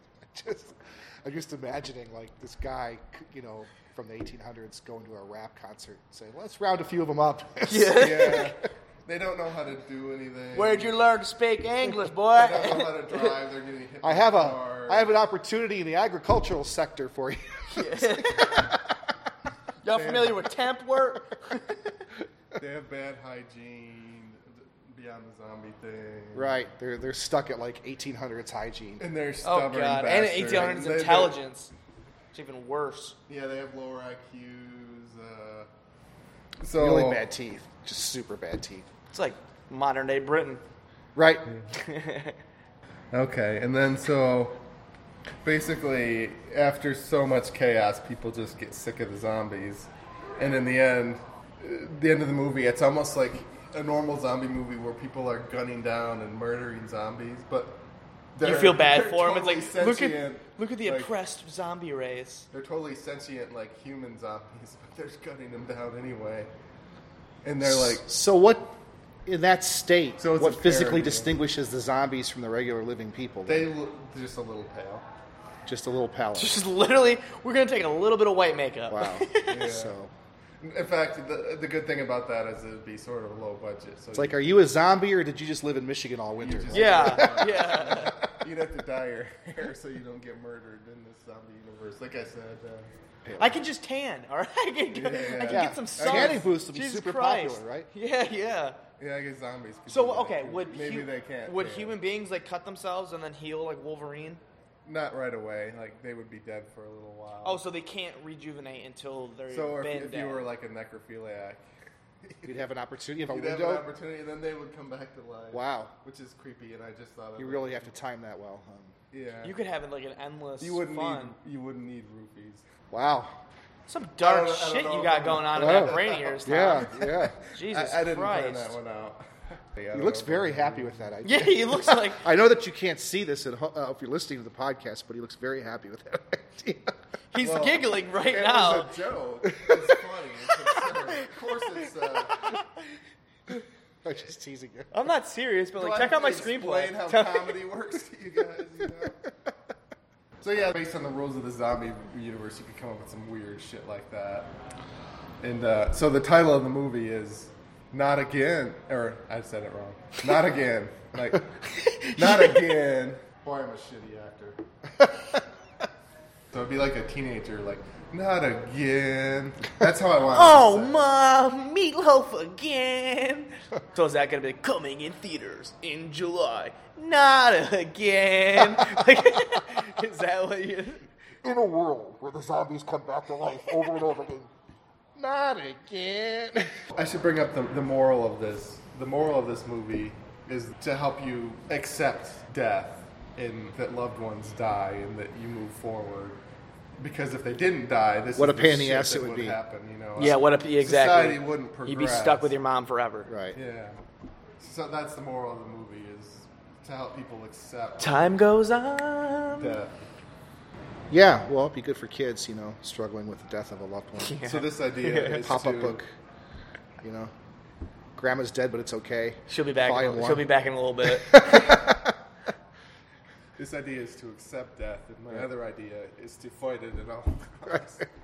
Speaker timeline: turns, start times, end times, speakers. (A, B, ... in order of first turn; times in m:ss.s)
0:00.3-0:08.5 A
0:07.7-0:08.5 B
0:08.0-0:10.9 C
0:10.5-0:13.3 B
0:12.3-0:15.1 C
0:14.0-0:19.1 A
0:17.7-0:18.7 B
0:19.8-0:22.0 B
0:19.9-0:20.4 C
0:22.5-0:26.7 C
0:26.3-0:29.0 A
0:29.0-0:31.4 C
0:29.4-0:31.7 B
0:32.3-0:33.2 B
0:33.3-0:35.7 C
0:36.6-0:37.2 C
0:36.8-0:38.9 A
0:39.1-0:40.6 B
0:41.1-0:41.4 A
0:41.8-0:42.4 B
0:43.1-0:44.6 C
0:45.4-0:57.8 C
0:58.3-1:01.1 C
0:58.4-1:02.5 B
1:02.5-1:06.5 C
1:07.4-1:08.1 C
1:07.6-1:08.7 A
1:09.2-1:13.7 A
1:10.2-1:11.3 C
1:13.4-1:15.0 C
1:15.6-1:16.6 A
1:16.3-1:19.7 B
1:18.9-1:20.1 A
1:19.4-1:20.0 C
1:20.6-1:24.5 C
1:24.1-1:27.7 A
1:26.4-1:32.9 C
1:26.7-1:28.2 B
1:33.2-1:33.6 A
1:33.4-1:38.8 B
1:34.9-1:36.5 C
1:35.4-1:37.9 A
1:39.0-1:42.0 C
1:39.9-1:44.4 B
1:44.9-1:47.6 C
1:47.4-1:50.5 B
1:49.5-1:51.7 C
1:52.2-1:52.6 C
1:52.4-1:53.9 A
1:53.3-1:57.9 C
1:55.5-1:55.9 A
1:57.4-1:59.0 A
1:59.1-1:59.6 C
1:59.4-2:01.4 B
2:00.6-2:02.6 C
2:02.9-2:03.4 A
2:03.9-2:08.8 B
2:04.2-2:09.2 C
2:05.6-2:07.4 A
2:09.7-2:11.1 C
2:09.9-2:16.9 A
2:11.2-2:12.3 B
2:17.3-2:18.9 B
2:17.4-2:22.6 C
2:19.4-2:20.0 A
2:24.0-2:24.9 A
2:24.9-2:27.6 B
2:25.8-2:29.2 C
2:29.0-2:29.3 A
2:30.4-2:34.5 C
2:35.4-2:41.4 C
2:41.7-2:42.8 B
2:42.1-2:44.6 C
2:45.0-2:45.2 A
2:46.5-2:51.1 C
2:50.3-3:01.1 B
2:58.6-2:59.0 A
3:01.4-3:04.5 A
3:05.2-3:06.7 A
3:06.9-3:16.4 C
3:17.0-3:22.6 C
3:18.4-3:19.6 A
3:20.2-3:23.3 B
3:23.3-3:23.6 A
3:23.5-3:24.0 C
3:24.6-3:28.2 C
3:28.0-3:29.8 B
3:29.6-3:30.1 C
3:31.1-3:34.4 A
3:34.2-3:35.5 B
3:34.4-3:36.0 C
3:35.2-3:36.0 A
3:37.0-3:37.3 A
3:38.2-3:40.5 A
3:39.5-3:41.8 B
3:41.0-3:42.2 A
3:43.6-3:48.1 C